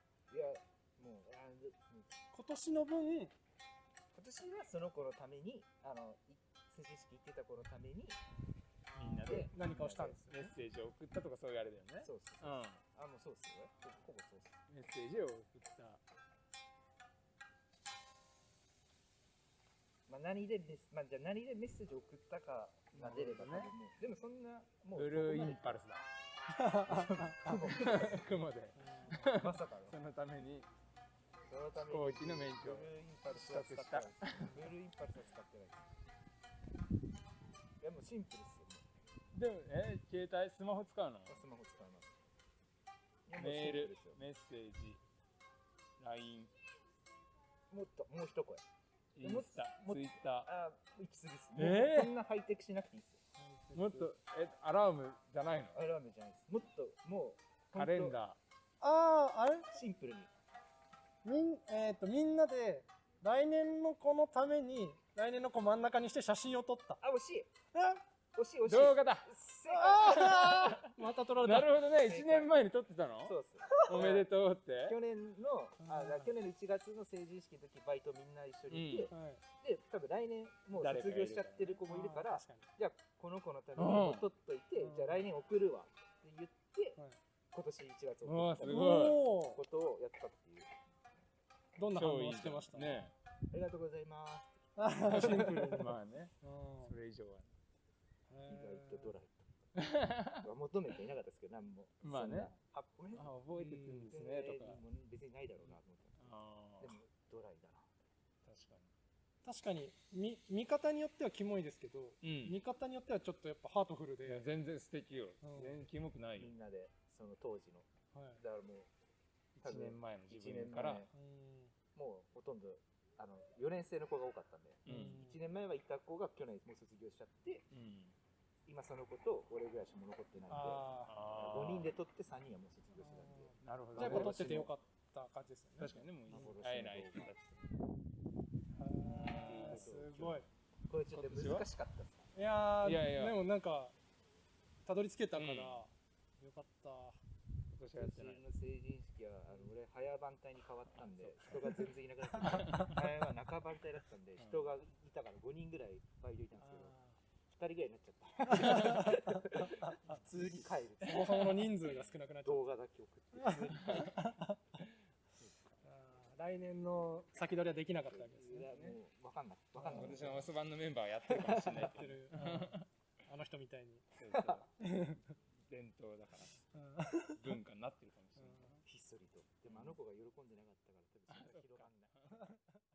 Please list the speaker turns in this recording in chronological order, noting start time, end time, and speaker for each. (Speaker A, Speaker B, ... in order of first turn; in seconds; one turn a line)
Speaker A: 0.3-2.1
Speaker B: 2.3-3.3
Speaker A: 4.1-8.2
Speaker C: 8.9-9.5
Speaker A: 9.2-10.2
Speaker B: 9.3-10.5
Speaker C: 10.3-12.8
Speaker A: 12.0-14.6
Speaker C: 14.7-16.0
Speaker A: 20.1-25.8
Speaker C: 22.9-23.7
Speaker C: 25.0-26.1
Speaker B: 26.5-27.7
Speaker A: 26.9-28.3
Speaker C: 27.6-30.7
Speaker B: 28.8-29.3
Speaker A: 29.4-30.0
Speaker A: 31.5-35.9
Speaker C: 31.8-34.6
Speaker A: 37.8-38.9
Speaker C: 39.3-41.4
Speaker A: 41.3-42.1
Speaker A: 43.3-44.2
Speaker C: 43.4-45.0
Speaker C: 46.0-46.5
Speaker A: 47.7-48.6
Speaker C: 49.2-50.5
Speaker A: 49.2-53.2
Speaker C: 51.6-52.1
Speaker B: 53.4-54.1
Speaker C: 53.7-55.8
Speaker A: 55.7-58.2
Speaker C: 57.8-58.4
Speaker B: 58.8-59.7
Speaker A: 59.7-60.3
Speaker B: 61.2-67.0
Speaker A: 67.0-67.5
Speaker B: 67.8-68.0
Speaker A: 68.3-70.5
Speaker C: 68.7-69.3
Speaker B: 69.7-71.7
Speaker C: 70.0-75.0
Speaker A: 72.0-72.6
Speaker A: 73.2-74.3
Speaker A: 74.8-87.0
Speaker B: 75.8-76.3
Speaker C: 78.7-79.1
Speaker B: 79.1-79.4
Speaker C: 80.8-81.8
Speaker B: 81.9-82.7
Speaker C: 83.8-84.3
Speaker B: 84.8-85.2
Speaker A: 87.5-90.7
Speaker C: 88.2-89.2
Speaker B: 88.6-89.6
Speaker B: 91.8-93.0
Speaker C: 92.0-93.1
Speaker A: 93.5-95.5
Speaker B: 94.8-96.9
Speaker C: 95.0-97.5
Speaker B: 98.3-99.1
Speaker A: 98.5-99.7
Speaker C: 99.8-100.5
Speaker A: 100.4-103.3
Speaker C: 102.0-102.5
Speaker C: 103.1-104.8
Speaker B: 103.6-104.2
Speaker A: 104.1-107.9
Speaker C: 105.6-106.9
Speaker C: 108.5-108.9
Speaker B: 109.4-114.5
Speaker C: 112.2-112.6
Speaker C: 114.2-116.5
Speaker B: 115.4-115.8
Speaker A: 116.4-118.9
Speaker B: 118.1-118.4
Speaker C: 119.5-121.0
Speaker A: 119.6-121.1
Speaker B: 121.1-121.7
Speaker A: 122.0-127.7
Speaker C: 124.9-125.2
Speaker B: 124.9-125.4
Speaker C: 127.7-128.2
Speaker A: 128.7-134.7
Speaker B: 130.5-131.2
Speaker C: 131.0-131.9
Speaker B: 133.0-136.6
Speaker C: 133.6-134.7
Speaker C: 135.8-137.6
Speaker A: 136.3-137.3
Speaker B: 138.8-140.5
Speaker C: 139.0-139.9
Speaker A: 139.4-142.3
Speaker C: 141.1-141.7
Speaker B: 142.3-143.9
Speaker C: 142.8-143.4
Speaker B: 144.8-147.2
Speaker C: 145.3-145.9
Speaker C: 147.7-148.4
Speaker A: 147.9-157.0
Speaker C: 151.2-151.7
Speaker C: 152.4-153.0
Speaker C: 154.4-154.7
Speaker B: 156.6-157.2
Speaker A: 157.5-161.4
Speaker B: 158.5-159.1
Speaker C: 158.6-159.0
Speaker B: 160.3-162.6
Speaker C: 160.5-162.0
Speaker A: 162.4-164.1
Speaker B: 163.3-164.6
Speaker C: 163.6-164.9
Speaker B: 165.8-168.7
Speaker A: 168.1-170.5
Speaker C: 168.5-169.0
Speaker B: 169.8-170.3
Speaker C: 169.8-172.9
Speaker A: 171.3-172.1
Speaker B: 171.5-172.8
Speaker B: 173.3-174.1
Speaker C: 174.2-174.7
Speaker A: 174.3-174.6
Speaker B: 174.8-175.2
Speaker C: 175.7-176.6
Speaker B: 176.7-177.5
Speaker C: 177.4-178.8
Speaker B: 178.4-178.7
Speaker A: 178.8-182.6
Speaker C: 179.7-180.0
Speaker C: 181.3-182.6